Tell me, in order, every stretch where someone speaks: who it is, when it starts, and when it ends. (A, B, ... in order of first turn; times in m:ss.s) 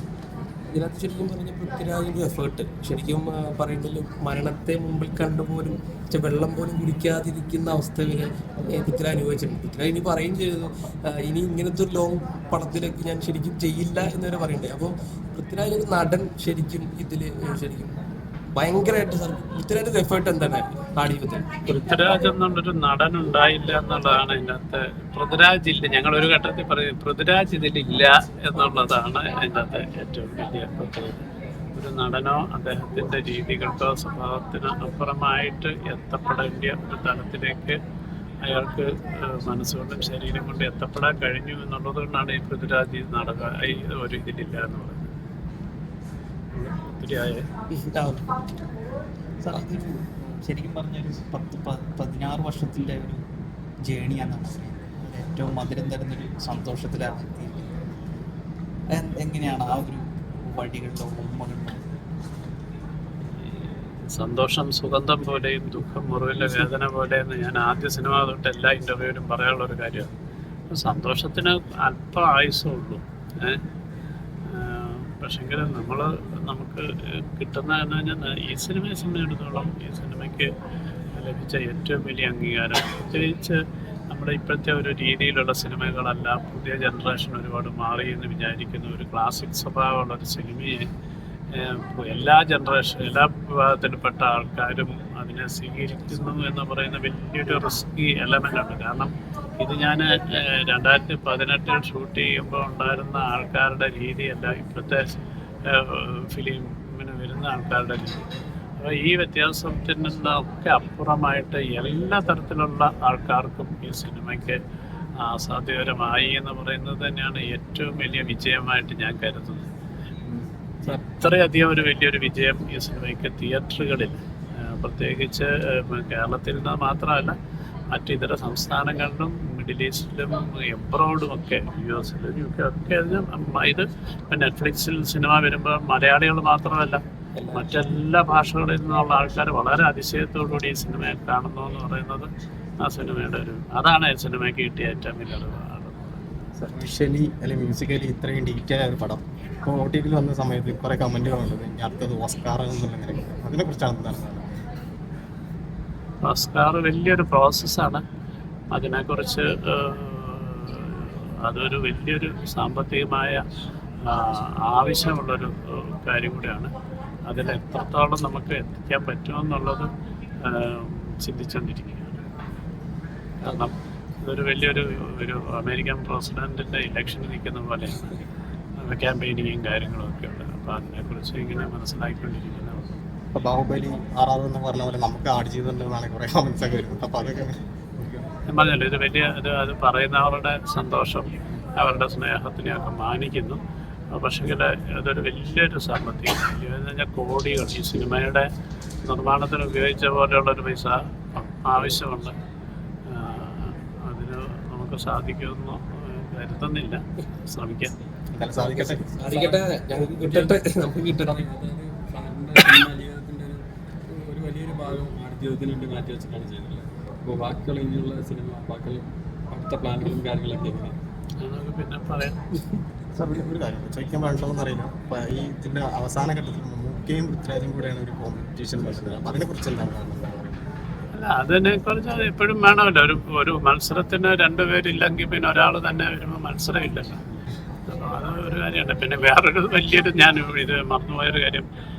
0:00.7-0:17.9 A
0:18.5-0:21.4 A
0:21.7-0:31.2 B
0:31.8-0:37.8 B
0:38.4-0:45.0 B
0:46.5-0:47.4 B
0:47.7-0:48.2 A
0:49.4-0:53.2 C
0:53.9-0:57.8 C
0:58.9-1:01.8 C
1:04.1-1:10.1 B
1:10.7-1:13.6 B
1:14.5-1:20.5 B
1:21.1-1:23.6 B
1:24.1-1:30.9 B
1:31.5-1:45.0 B
1:45.7-1:48.3 B
1:48.8-1:54.6 B
1:55.2-1:59.7 B
2:00.3-2:04.1 B
2:04.7-2:07.3 B
2:07.9-2:17.0 B
2:17.4-2:17.7 A
2:17.5-2:22.3 B
2:22.8-2:26.2 B
2:26.6-2:34.5 D
2:36.2-2:38.0 B
2:38.7-2:43.4 B
2:44.1-2:46.7 B
2:47.3-2:49.9 B
2:50.4-2:52.2 B
2:53.4-2:58.2 B
2:58.8-3:03.0 B
3:03.3-3:08.2 D
3:08.5-3:11.3 B
3:11.8-3:13.6 B
3:14.1-3:18.5 B
3:19.1-3:22.3 B
3:23.1-3:27.9 B
3:28.3-3:29.0 D
3:28.6-3:31.4 A
3:29.2-3:41.0 E
3:41.4-3:42.4 B
3:43.2-3:50.6 D
3:51.2-3:57.2 B
3:57.9-4:01.7 B